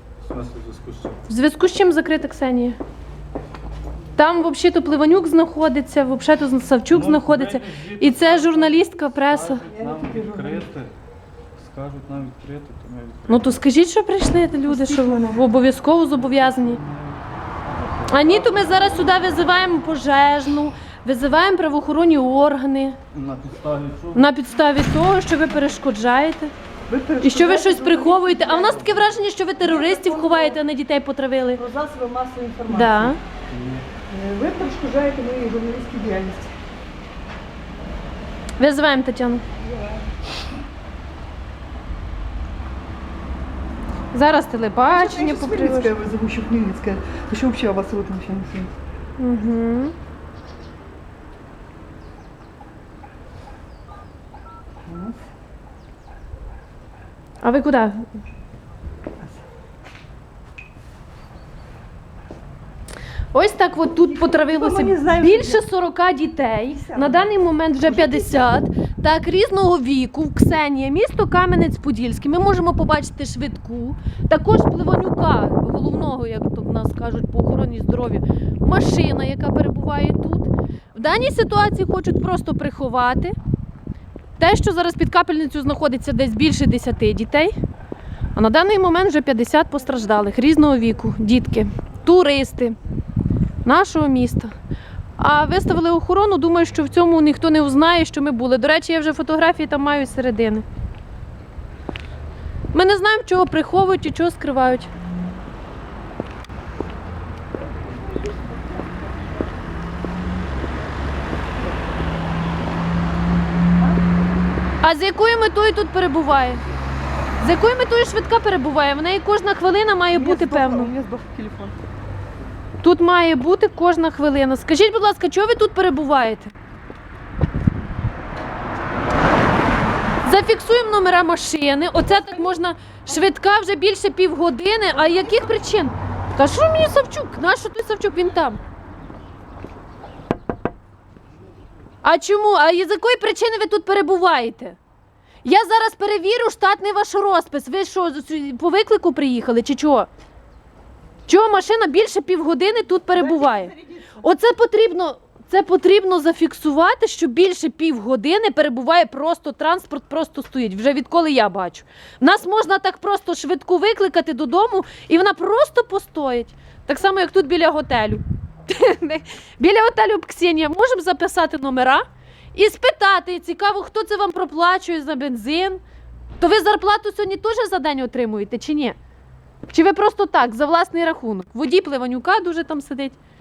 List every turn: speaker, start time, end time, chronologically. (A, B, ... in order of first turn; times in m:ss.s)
0:00.2-0:01.2 A
0:01.3-0:02.8 B
0:04.1-0:09.6 B
0:06.9-0:10.9 A
0:09.7-0:10.6 C
0:11.6-0:13.5 A
0:13.3-0:16.8 B
0:14.6-0:15.4 C
0:16.1-0:19.0 A
0:18.1-0:23.0 B
0:23.1-0:24.3 A
0:24.1-0:26.5 B
0:26.9-0:28.9 C
0:27.2-0:31.6 B
0:29.6-0:30.6 C
0:31.6-0:33.2 C
0:32.7-0:33.2 B
0:33.5-0:33.8 A
0:34.1-0:36.5 C
0:38.6-0:39.4 B
0:39.6-0:40.0 C
0:44.1-0:45.9 B
0:44.8-0:48.7 C
0:49.2-0:49.9 B
0:54.8-0:55.2 C
0:57.4-0:58.0 B
1:03.3-1:23.3 B
1:04.0-1:05.6 C
1:06.8-1:07.3 C
1:07.8-1:08.5 C
1:24.4-1:27.5 B
1:28.3-1:32.8 B
1:33.6-1:34.5 B
1:35.2-1:40.6 B
1:42.7-1:44.9 B
1:54.8-1:56.6 B
1:57.4-2:00.9 B
2:00.1-2:01.8 C
2:02.8-2:06.5 B
2:10.2-2:18.6 B
2:22.0-2:24.8 B
2:25.4-2:30.1 B
2:31.3-2:55.8 B
2:33.2-2:34.1 C
2:56.4-2:59.0 B
2:59.7-3:03.2 B